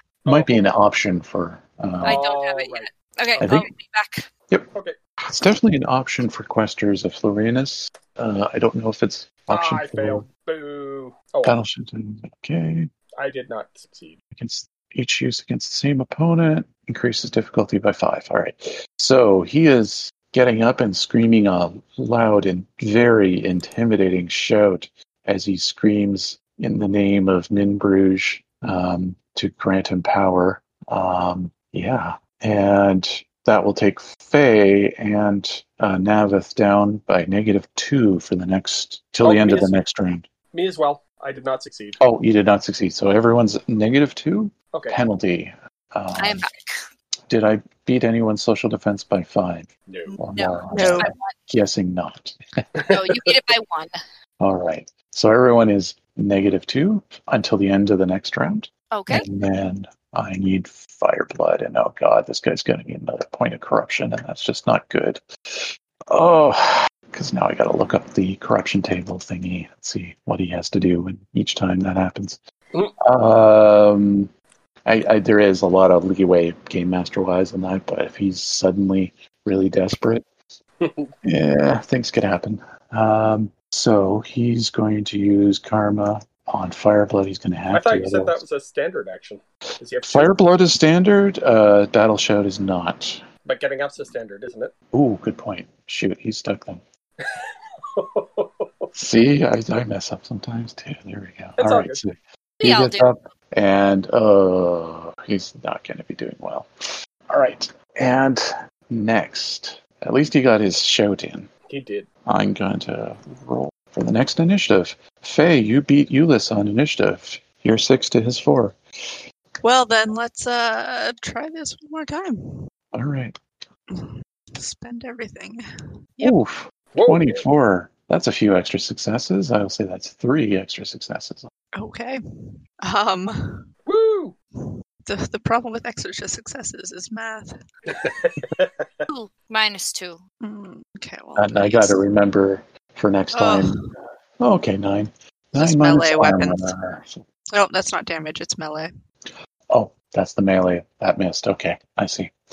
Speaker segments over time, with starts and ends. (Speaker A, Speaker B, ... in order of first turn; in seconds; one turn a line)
Speaker A: 0.2-0.7
Speaker B: 0.2-2.2
Speaker A: 2.0-3.5
Speaker C: 2.0-4.3
Speaker B: 3.4-3.7
Speaker B: 5.2-10.3
Speaker A: 9.5-11.6
Speaker B: 11.4-12.9
Speaker A: 13.2-14.2
Speaker B: 14.3-40.2
Speaker A: 39.2-39.8
Speaker A: 40.5-42.0
Speaker B: 42.0-46.5
Speaker A: 44.7-45.0
Speaker C: 46.2-46.8
Speaker B: 47.3-52.6
Speaker A: 49.9-50.2
Speaker C: 50.4-51.4
Speaker D: 50.7-51.1
Speaker A: 52.8-53.4
Speaker C: 52.9-53.9
Speaker B: 54.4-72.4
Speaker C: 58.9-59.3
Speaker A: 72.7-73.0
Speaker B: 73.0-74.3
Speaker B: 74.8-80.2
Speaker A: 80.8-81.1
Speaker B: 81.2-88.4
Speaker A: 87.7-90.3
Speaker B: 90.0-93.2
Speaker A: 93.4-94.7
Speaker B: 94.9-96.8
Speaker A: 97.2-98.9
Speaker B: 98.9-106.7
Speaker A: 101.6-102.0
Speaker C: 102.6-103.1
Speaker B: 107.3-111.5
Speaker A: 111.7-112.1
Speaker B: 112.3-118.8
Speaker D: 119.6-122.6
Speaker B: 122.9-123.4
Speaker D: 123.9-125.6
Speaker B: 126.2-131.5
Speaker A: 126.9-127.4
Speaker D: 131.8-132.2
Speaker D: 132.8-133.7
Speaker A: 133.9-134.3
Speaker D: 135.1-137.6
Speaker A: 137.9-139.1
Speaker C: 139.1-140.2
Speaker D: 140.4-142.0
Speaker B: 141.4-143.8
Speaker D: 143.3-143.8
Speaker B: 144.4-147.2
Speaker D: 145.6-146.7
Speaker D: 147.5-148.9
Speaker B: 149.7-152.3